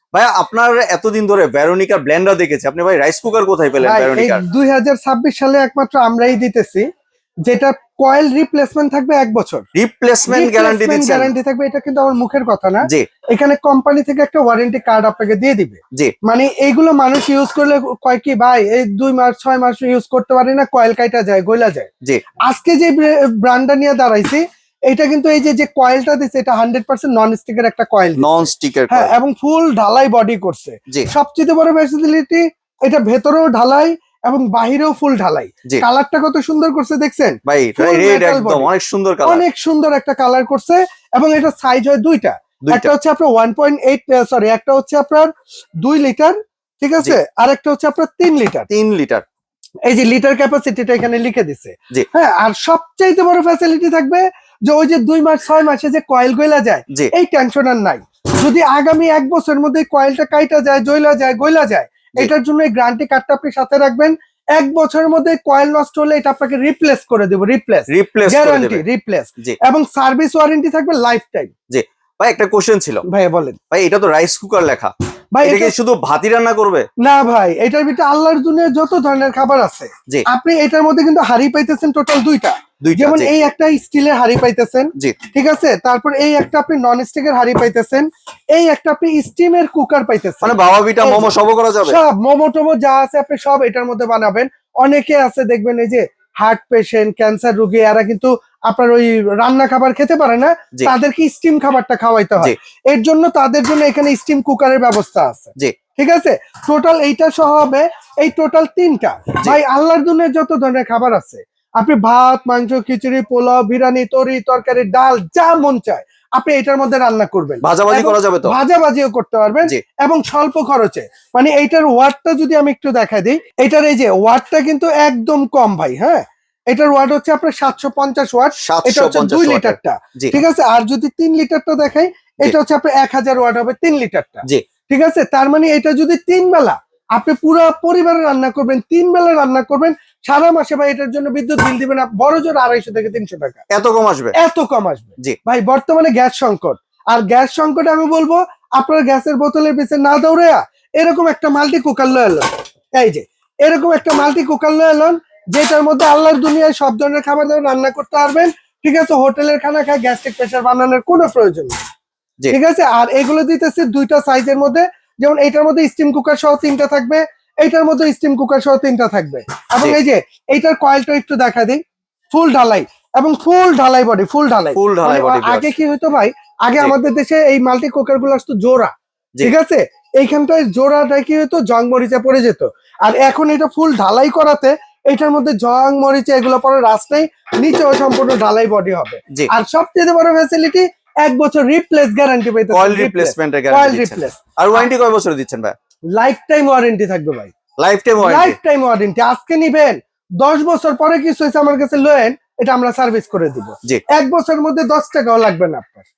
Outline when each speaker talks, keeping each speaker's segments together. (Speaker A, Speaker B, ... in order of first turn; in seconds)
Speaker A: 0.1-4.4, 9.8-11.3, 28.2-29.1, 37.5-39.5, 42.6-42.9, 48.7-49.2, 67.9-68.8, 71.7-73.0, 73.7-76.9, 82.8-83.3, 90.4-92.0, 117.6-118.5, 128.6-130.4, 143.7-144.4, 174.8-175.7, 192.7-195.8, 197.8-198.6
Speaker B: 3.8-6.9, 7.4-9.7, 10.3-21.9, 22.5-38.7, 39.2-45.3, 45.8-48.7, 49.9-71.5, 73.1-73.6, 75.3-75.7, 77.0-143.6, 144.4-161.8, 162.5-171.8, 172.3-194.4, 196.1-197.5, 198.2-206.1